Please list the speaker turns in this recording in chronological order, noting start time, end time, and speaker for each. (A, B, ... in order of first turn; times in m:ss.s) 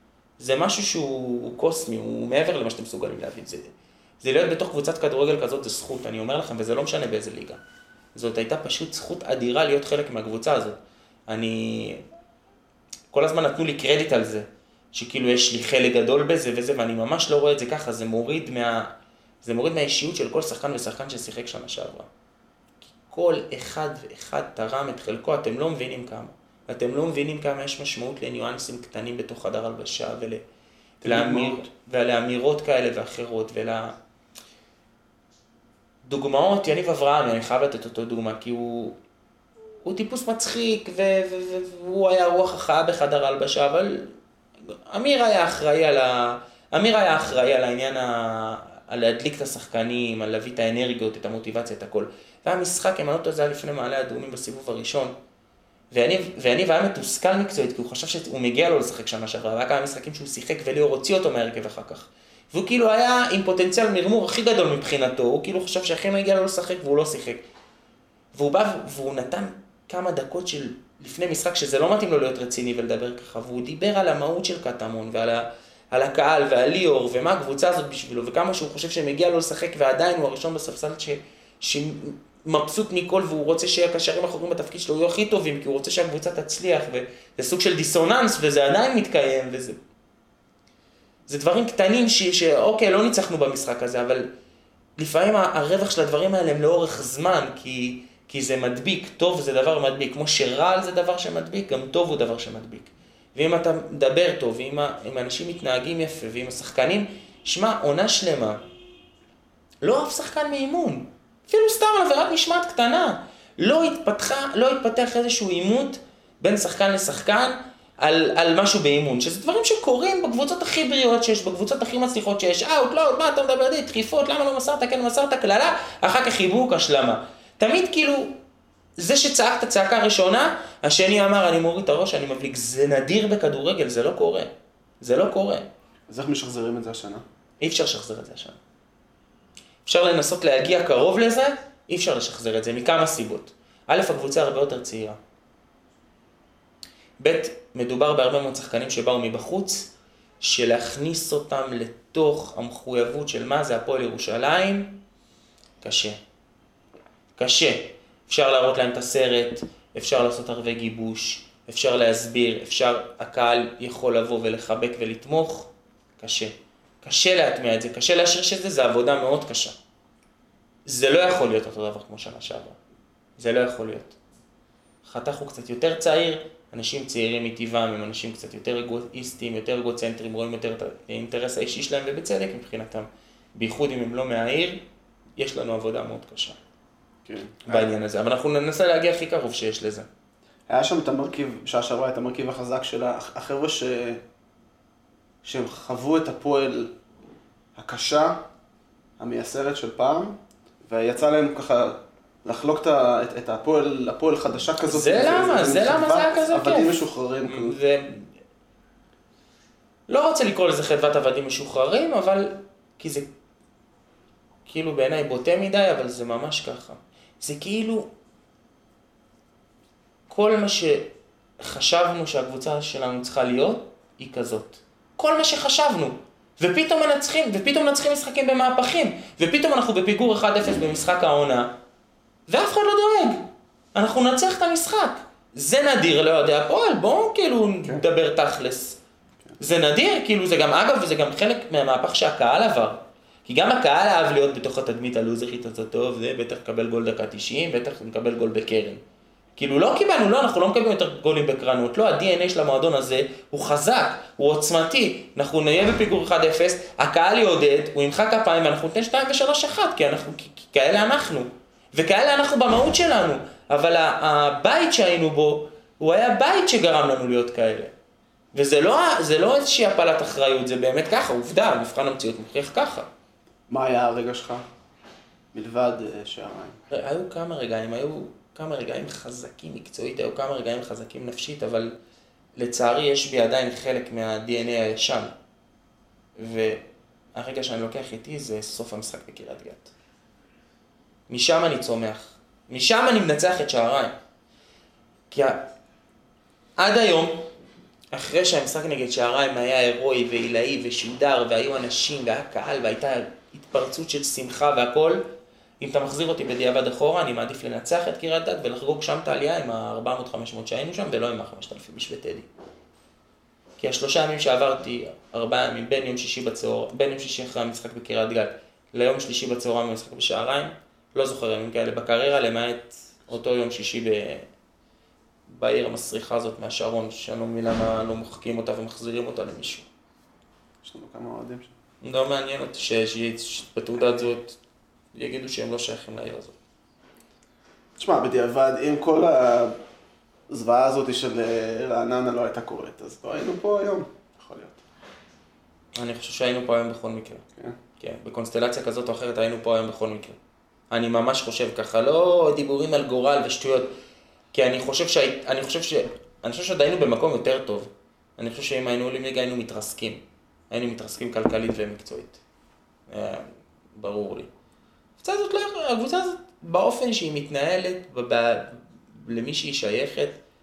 0:00.4-0:07.6 A
0:08.1-0:12.0 A
0:13.1-0:22.1 A
0:23.1-0:30.4 A
0:31.0-0:31.6 B
0:31.0-0:33.9 A
0:36.0-0:39.0 A
0:39.8-0:44.1 A
0:44.9-0:55.1 A
0:55.9-1:07.4 A
1:08.3-1:29.8 A
1:31.3-1:34.3 A
1:35.0-1:48.6 A
1:49.8-2:08.4 A
2:09.0-2:15.7 A
2:16.1-2:17.2 B
2:17.6-2:18.6 A
2:19.8-2:25.2 A
2:27.2-2:35.0 A
2:35.8-2:36.2 A
2:37.4-2:49.7 A
2:50.8-2:52.8 A
2:53.4-2:54.2 A
2:55.0-3:04.8 A
3:05.4-3:06.6 A
3:07.2-3:07.9 B
3:07.6-3:10.1 A
3:10.7-3:14.2 B
3:15.4-3:16.9 B
3:17.7-3:18.4 B
3:19.2-3:27.8 B
3:24.8-3:28.3 A
3:30.1-3:33.3 A
3:34.7-3:38.1 A
3:40.3-3:51.7 A
3:52.5-3:59.0 A
3:59.6-4:09.0 A
4:09.6-4:27.9 A
4:28.5-4:33.1 A
4:33.7-4:34.6 B
4:35.5-4:36.8 B
4:36.9-4:42.0 A
4:42.6-4:45.3 A
4:46.4-4:46.8 A
4:47.3-4:49.9 A
4:51.3-4:54.1 A
4:55.3-4:55.7 A
4:56.8-4:57.5 A
4:58.1-5:05.3 A
5:05.8-5:12.5 A
5:13.8-5:24.4 A
5:25.5-5:29.8 A
5:30.8-5:31.7 B
5:32.0-5:34.6 A
5:35.1-5:36.5 A
5:38.0-5:39.8 B
5:40.5-5:44.8 B
5:45.9-5:47.4 A
5:48.0-5:50.4 A
5:50.9-5:53.9 A
5:54.5-6:02.4 A
6:03.1-6:04.5 A
6:05.2-6:10.4 A